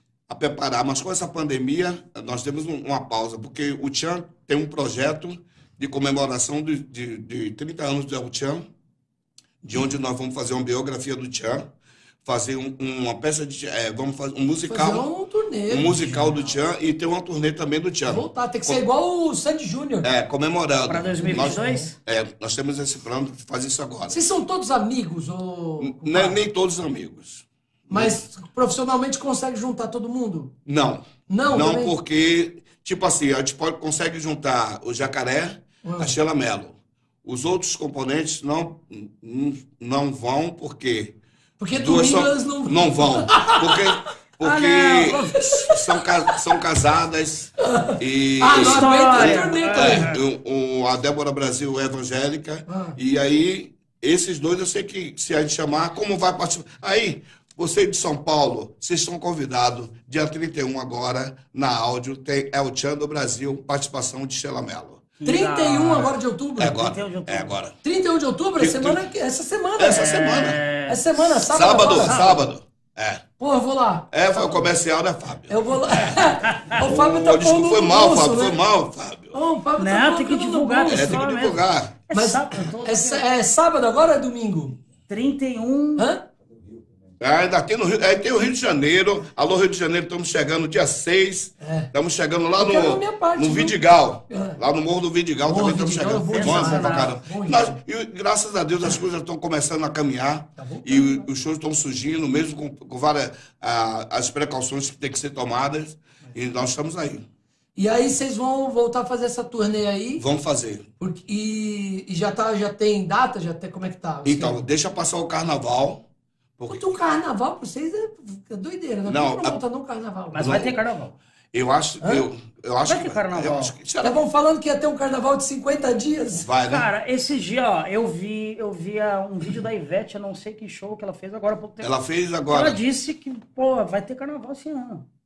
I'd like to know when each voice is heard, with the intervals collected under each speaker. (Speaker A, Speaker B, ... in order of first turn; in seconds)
Speaker A: 0.3-8.7, 9.6-11.7, 12.2-15.1, 15.7-18.8, 20.0-24.2, 25.8-28.2, 30.6-41.1, 41.7-65.0, 66.6-67.8, 68.5-69.0, 69.8-70.6, 71.5-73.2, 74.1-79.3, 80.9-82.0, 87.2-107.2, 110.2-110.8, 114.2-116.0, 116.6-116.9, 119.0-119.6, 120.3-120.8, 121.5-124.2, 126.3-126.9, 131.8-132.8
Speaker B: 14.7-16.2, 18.1-20.1, 21.2-21.9, 24.1-26.4, 27.9-30.5, 31.3-31.9, 35.8-36.1, 41.6-44.0, 45.1-46.4, 47.6-50.1, 52.7-53.0, 65.2-66.8, 67.8-72.3, 73.4-74.7, 75.5-78.6, 79.3-81.2, 82.1-84.8, 86.0-86.2, 91.6-91.9, 92.6-93.8, 94.3-94.6, 95.4-97.8, 100.5-101.2, 107.8-110.2, 111.0-114.6, 116.7-120.5, 122.0-122.2, 124.0-126.5
Speaker C: 20.9-21.9, 44.4-45.3, 48.5-50.2, 65.2-66.2, 66.7-67.5, 69.9-71.0, 71.7-72.4, 79.8-83.2, 85.1-86.1, 96.3-97.2, 120.3-121.1, 122.9-123.7, 126.7-131.9, 132.5-135.0